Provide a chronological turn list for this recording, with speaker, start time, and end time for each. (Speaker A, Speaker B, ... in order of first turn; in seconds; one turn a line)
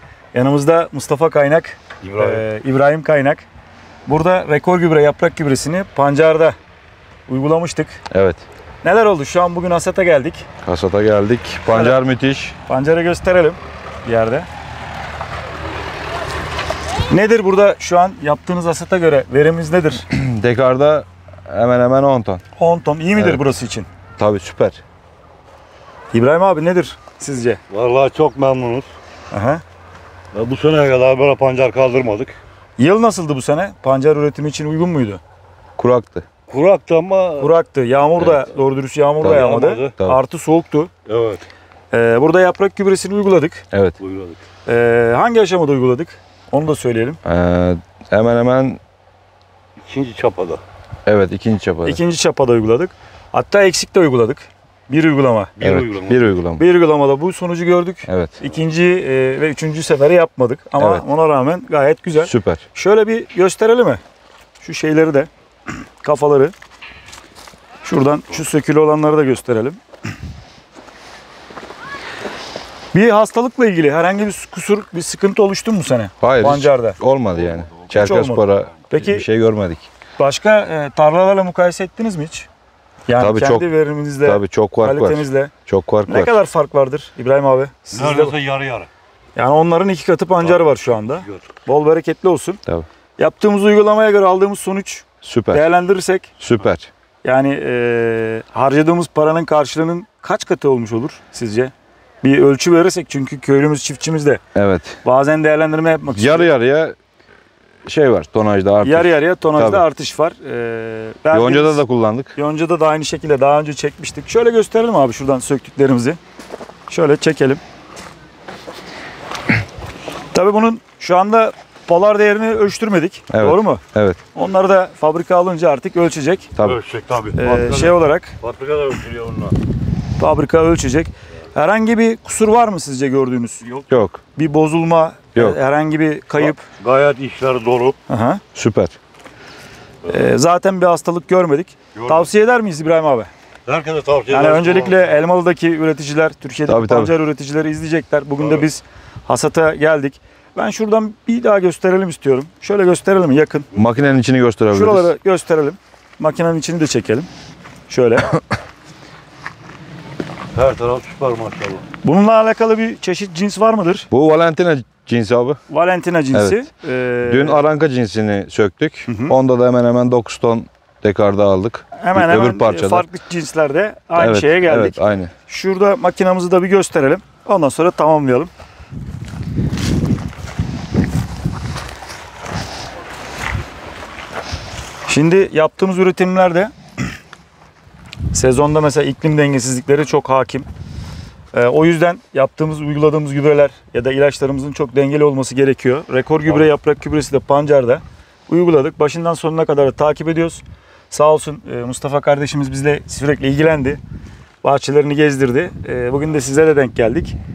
Speaker A: 0.3-3.5
Speaker B: 2.0-2.4
Speaker A: 4.0-6.5
Speaker A: 7.3-8.0
Speaker C: 8.1-8.4
Speaker A: 8.8-10.5
Speaker C: 10.6-12.6
Speaker A: 11.7-12.0
Speaker A: 12.7-14.5
Speaker A: 17.1-20.1
Speaker C: 20.1-22.4
Speaker A: 22.6-23.9
Speaker C: 24.2-24.8
Speaker A: 26.1-27.6
Speaker B: 27.7-28.9
Speaker A: 29.3-29.6
Speaker B: 30.3-32.4
Speaker A: 32.8-35.2
Speaker C: 35.8-36.2
Speaker B: 36.5-37.5
Speaker A: 37.4-40.9
Speaker B: 39.2-40.0
Speaker B: 41.0-41.4
Speaker A: 41.9-43.6
Speaker C: 43.7-44.0
Speaker B: 44.0-44.4
Speaker A: 44.6-47.2
Speaker C: 47.2-48.8
Speaker B: 49.9-50.6
Speaker C: 51.0-52.0
Speaker A: 51.8-55.5
Speaker B: 55.6-56.2
Speaker C: 55.6-56.6
Speaker A: 56.6-64.0
Speaker C: 58.1-58.4
Speaker C: 60.8-61.0
Speaker C: 62.2-62.6
Speaker A: 64.6-65.3
Speaker A: 66.0-66.5
Speaker A: 67.8-69.8
Speaker A: 72.9-77.0
Speaker C: 76.2-79.9
Speaker A: 77.9-79.3
Speaker A: 80.2-82.5
Speaker A: 83.1-85.5
Speaker C: 83.2-83.7
Speaker C: 84.2-86.3
Speaker A: 86.1-88.4
Speaker B: 87.9-88.9
Speaker A: 89.3-92.6
Speaker A: 93.2-96.3
Speaker C: 95.2-95.7
Speaker C: 96.4-96.9
Speaker A: 97.2-101.7
Speaker A: 102.2-104.4
Speaker C: 104.5-105.0
Speaker A: 105.0-106.5
Speaker C: 106.2-107.0
Speaker C: 107.8-109.8
Speaker A: 108.8-111.8
Speaker C: 111.3-112.3
Speaker A: 112.3-116.2
Speaker A: 116.9-117.6
Speaker A: 120.3-126.5
Speaker C: 123.3-124.2
Speaker B: 126.6-129.6
Speaker A: 127.3-128.3
Speaker A: 130.2-133.8
Speaker C: 133.9-134.2
Speaker A: 134.3-136.7
Speaker B: 136.4-138.0
Speaker A: 138.1-138.4
Speaker C: 138.5-139.0
Speaker A: 140.0-143.3
Speaker B: 141.9-142.2
Speaker B: 143.7-145.1
Speaker A: 144.3-153.7
Speaker C: 146.7-147.1
Speaker C: 153.7-155.1
Speaker A: 154.7-157.3
Speaker A: 157.9-158.4
Speaker B: 160.5-161.8
Speaker A: 162.0-164.1
Speaker C: 164.1-165.6
Speaker A: 165.7-167.7
Speaker C: 166.3-166.6
Speaker C: 167.2-173.0
Speaker A: 169.1-169.3
Speaker A: 172.0-178.5
Speaker C: 174.2-175.3
Speaker A: 185.1-186.7
Speaker A: 188.3-190.7
Speaker A: 191.5-204.0
Speaker A: 204.6-207.3